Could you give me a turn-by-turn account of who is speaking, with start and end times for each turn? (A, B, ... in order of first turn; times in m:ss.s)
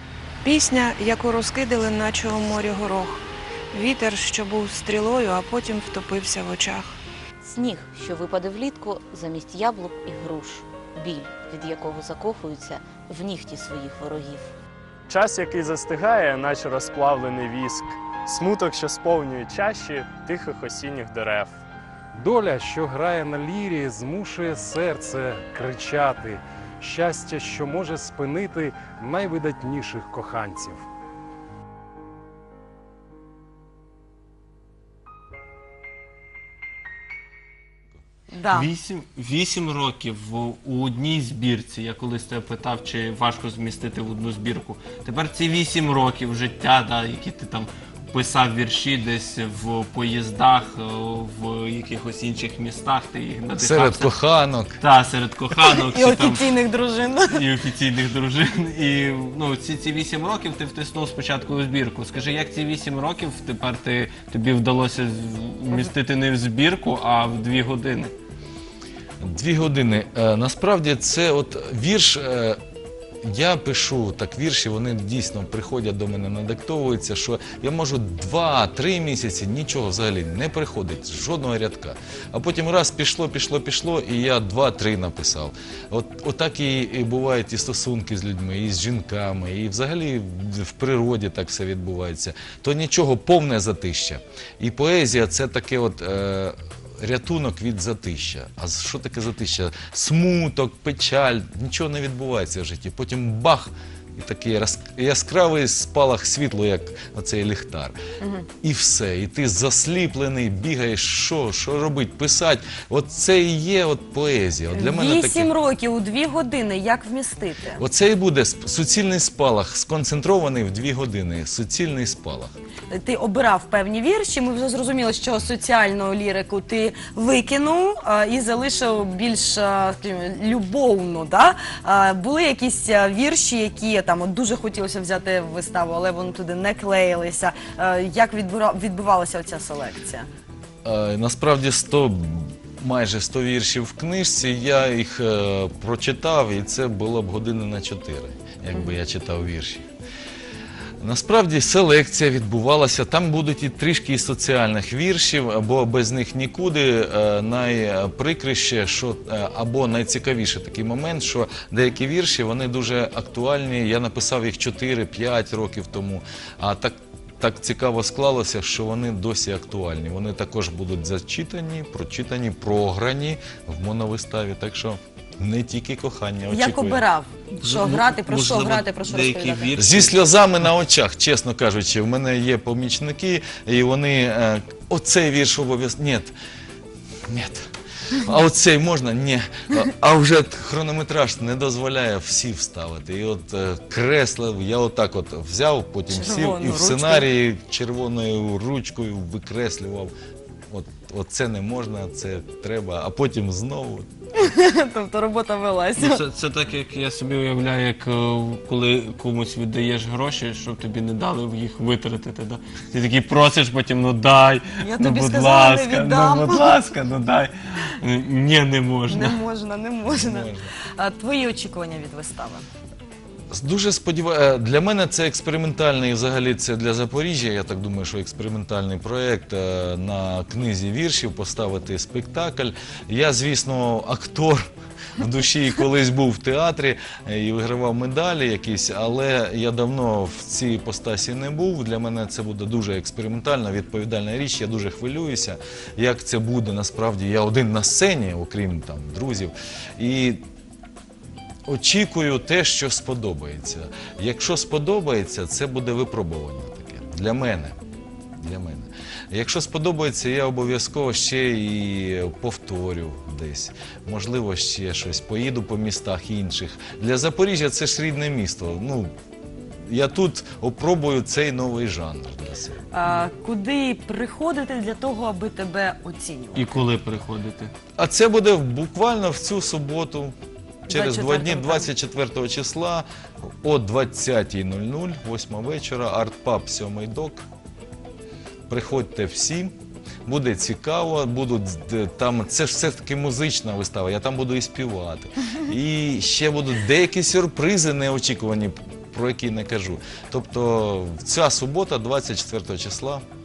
0:00.4-0:07.0 A
0:07.4-0:14.5 B
0:15.1-0:21.5 C
0:22.2-0:30.9 D
0:38.3-0:38.7 E
0:38.5-0:54.2 F
0:53.6-0:54.8 G
0:54.8-0:56.4 F
0:55.7-0:57.4 E
0:57.3-1:08.1 F
1:09.2-1:12.6 G
1:13.2-1:48.0 G
1:48.2-1:48.5 E
1:48.6-1:55.5 G
1:54.7-1:57.8 E
1:57.8-2:02.5 G
2:02.9-2:20.3 E
2:20.8-2:29.8 G
2:31.0-2:57.0 G
2:56.5-2:59.7 E
2:57.6-3:00.2 F
2:59.8-3:06.3 G
3:07.3-3:20.1 G
3:16.1-3:17.3 E
3:20.7-3:24.1 G
3:24.4-3:26.2 E
3:26.0-3:39.4 F
3:34.8-3:36.8 E
3:39.1-3:42.7 E
3:40.1-3:40.7 G
3:43.5-4:10.4 G
4:11.7-4:17.8 G
4:18.4-4:29.1 G
4:29.9-4:32.9 G
4:32.9-4:36.7 E
4:36.6-4:37.7 F
4:38.0-4:40.4 G
4:40.9-4:47.4 G
4:40.9-4:41.9 E
4:48.7-4:49.7 G
4:50.3-5:03.2 G